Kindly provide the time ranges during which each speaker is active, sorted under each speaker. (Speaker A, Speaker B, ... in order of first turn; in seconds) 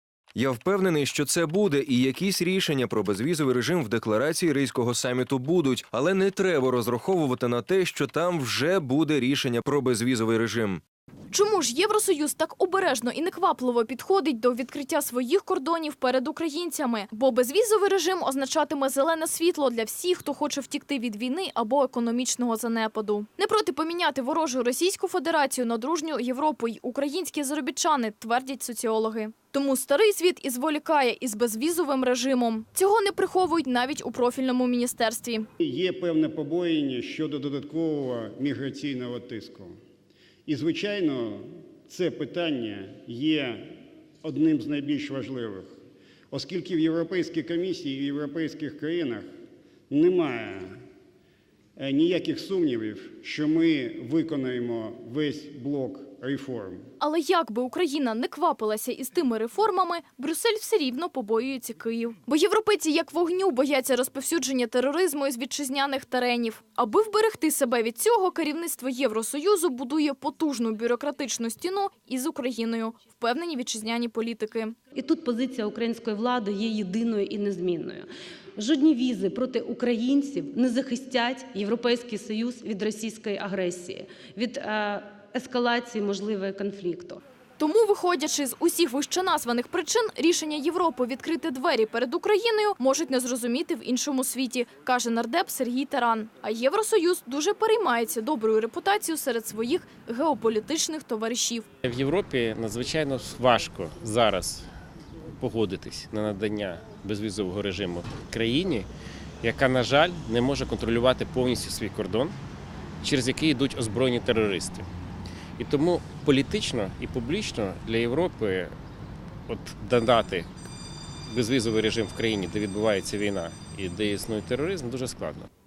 Speaker A: 0.3-10.8
Speaker B: 11.3-35.5, 57.0-74.8, 87.6-101.7
Speaker C: 35.6-39.7, 40.5-45.7, 46.3-49.3, 49.9-50.7, 51.8-56.8
Speaker D: 74.9-87.2
Speaker E: 101.8-104.7, 105.4-108.9, 109.4-112.4, 113.0-114.9, 115.6-118.7, 119.5-120.5, 121.2-125.5